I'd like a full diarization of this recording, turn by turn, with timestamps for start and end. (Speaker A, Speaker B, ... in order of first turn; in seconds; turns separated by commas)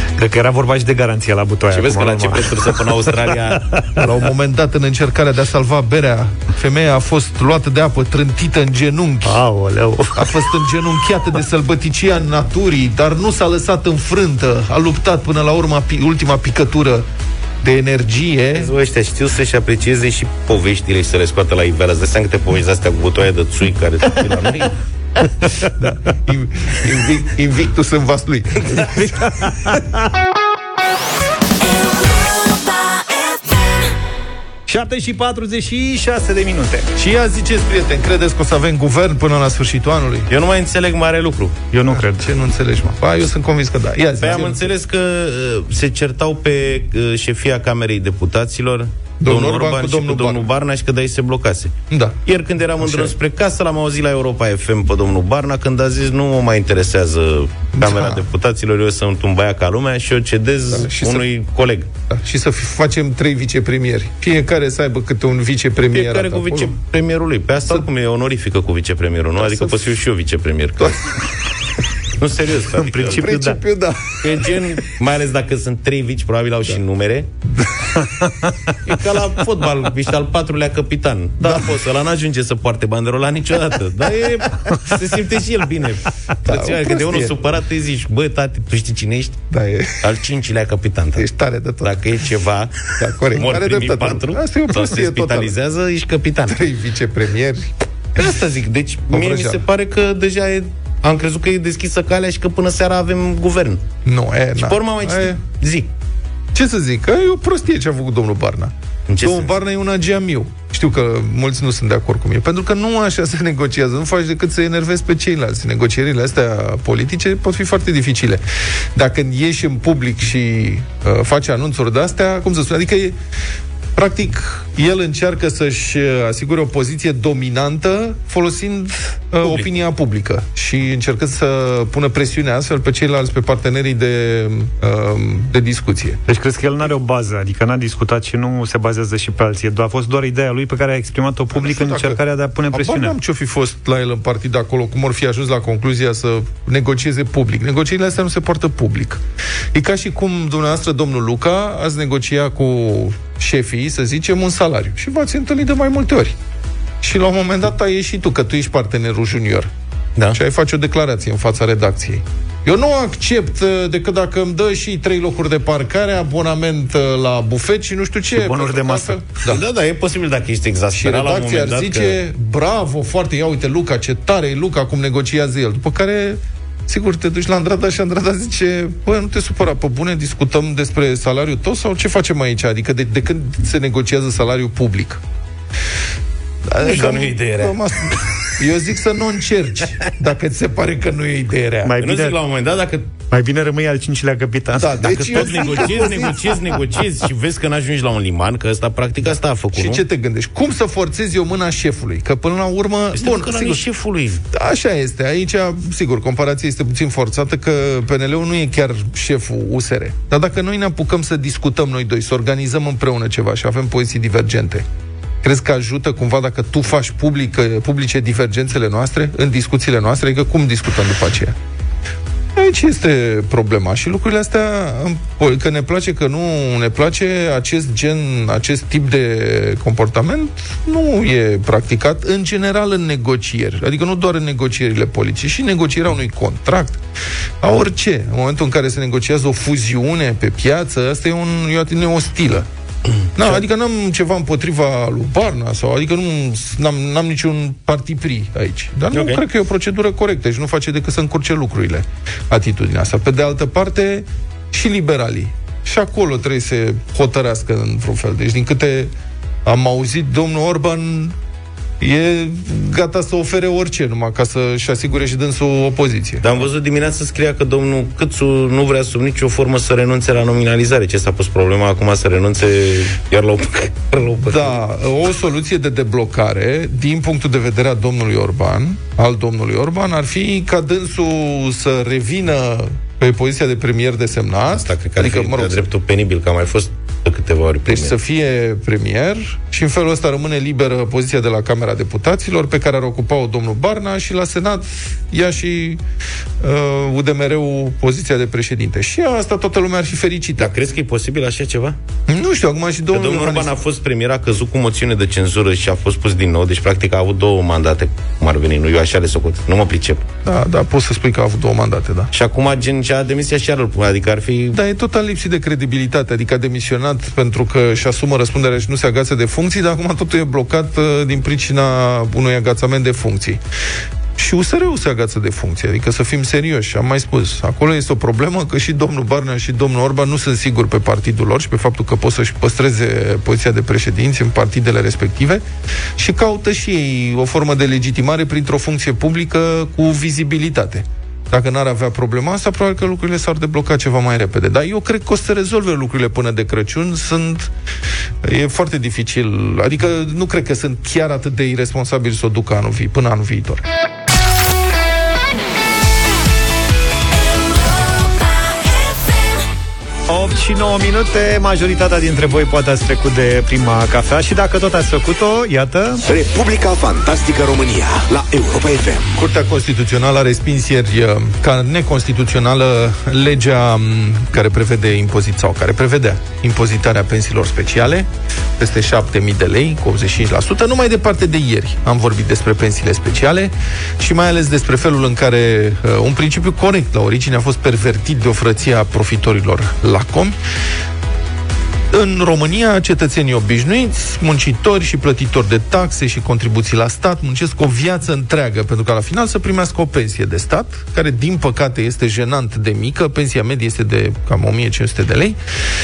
Speaker A: 0.2-2.8, Speaker B: 1.7-3.7, Speaker A: 3.5-4.0, Speaker C: 4.0-9.4, Speaker A: 9.2-10.5, Speaker C: 10.2-17.1, Speaker C: 17.6-18.7, Speaker B: 18.6-24.8, Speaker C: 25.7-29.3, Speaker A: 28.9-30.0, Speaker A: 34.7-36.9, Speaker C: 37.0-40.3, Speaker B: 40.3-41.6, Speaker A: 41.7-42.3, Speaker C: 41.9-44.7, Speaker B: 44.2-51.7, Speaker C: 49.2-50.5, Speaker C: 51.9-52.2, Speaker B: 52.3-61.9, Speaker C: 52.8-53.1, Speaker C: 57.8-58.3, Speaker C: 60.7-61.3, Speaker C: 62.1-66.8, Speaker B: 65.9-71.1, Speaker C: 69.4-70.0, Speaker C: 70.8-71.0, Speaker B: 72.2-73.3, Speaker A: 72.8-73.6, Speaker C: 73.1-74.6, Speaker B: 74.2-77.3, Speaker C: 77.5-78.0, Speaker A: 78.1-78.5, Speaker B: 78.8-89.4, Speaker C: 81.4-81.7, Speaker C: 86.5-87.4, Speaker C: 89.5-90.1, Speaker B: 90.0-91.3, Speaker C: 91.2-92.2, Speaker B: 91.8-96.6, Speaker C: 93.0-95.5, Speaker C: 96.5-97.7, Speaker B: 98.2-103.8, Speaker C: 99.1-99.6, Speaker C: 104.0-105.4, Speaker B: 104.6-105.9, Speaker C: 106.5-118.4, Speaker B: 109.1-109.5, Speaker C: 119.0-123.2, Speaker C: 124.0-136.2, Speaker A: 136.3-143.2, Speaker C: 141.5-142.2, Speaker C: 142.7-149.2, Speaker C: 149.7-156.4, Speaker C: 157.0-159.7, Speaker C: 160.3-169.6, Speaker A: 168.3-169.2, Speaker B: 169.5-172.2, Speaker C: 170.9-185.2, Speaker C: 186.7-191.9, Speaker B: 186.8-188.4, Speaker A: 191.8-192.4, Speaker B: 192.0-193.1, Speaker A: 193.3-195.1, Speaker C: 194.8-196.8, Speaker B: 195.1-200.0, Speaker C: 199.8-203.8, Speaker B: 203.2-204.4, Speaker C: 204.5-214.9, Speaker C: 215.4-221.6, Speaker C: 222.6-237.0, Speaker C: 237.6-242.7, Speaker C: 243.3-259.1, Speaker B: 249.1-249.4, Speaker C: 259.6-261.4, Speaker C: 262.0-266.7, Speaker B: 266.4-274.8, Speaker C: 274.4-285.9, Speaker B: 284.9-288.1, Speaker C: 287.9-296.0, Speaker C: 296.6-300.8, Speaker B: 300.6-302.0, Speaker C: 302.3-303.8, Speaker B: 303.1-310.3, Speaker C: 310.4-312.3, Speaker B: 312.3-314.8, Speaker C: 314.7-323.6, Speaker C: 324.4-335.6, Speaker C: 336.2-347.7, Speaker C: 348.4-353.8, Speaker A: 360.3-366.2, Speaker D: 366.3-369.4, Speaker C: 369.4-390.6, Speaker C: 392.1-405.6